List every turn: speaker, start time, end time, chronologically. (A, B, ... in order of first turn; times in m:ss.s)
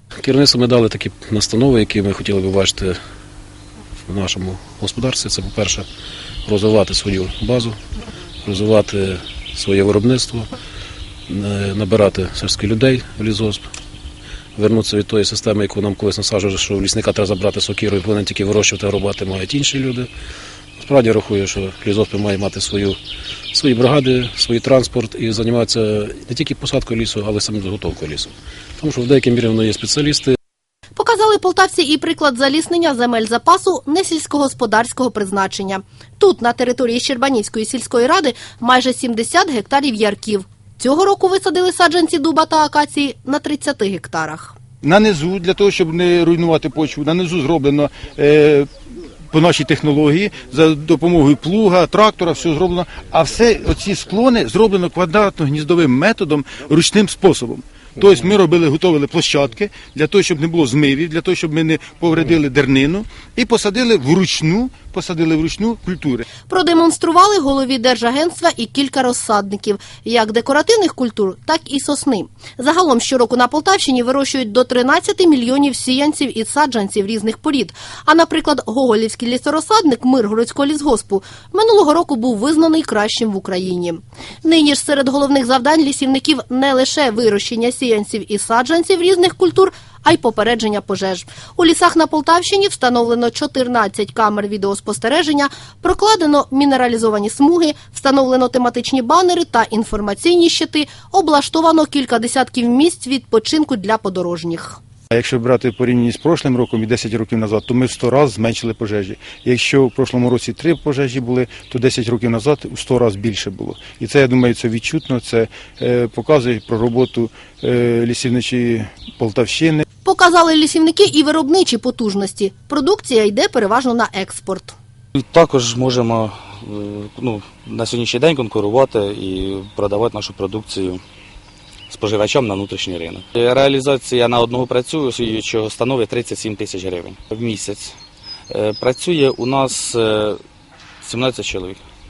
0:00.2-0:03.0 A
0:04.1-0:05.9 A
0:06.5-0:07.8 A
0:08.4-0:10.5 A
0:11.3-0:13.6 A
0:14.6-0:20.1 A
0:20.8-0:23.0 A
0:23.5-0:30.4 A
0:31.0-0:44.6 B
0:44.8-0:48.7 C
0:49.3-1:06.2 C
1:06.5-1:44.8 B
1:45.1-1:59.8 C
2:00.0-2:04.8 B
2:05.1-2:11.0 D
2:11.9-2:17.9 D
2:18.5-2:20.4 D
2:21.0-2:21.8 D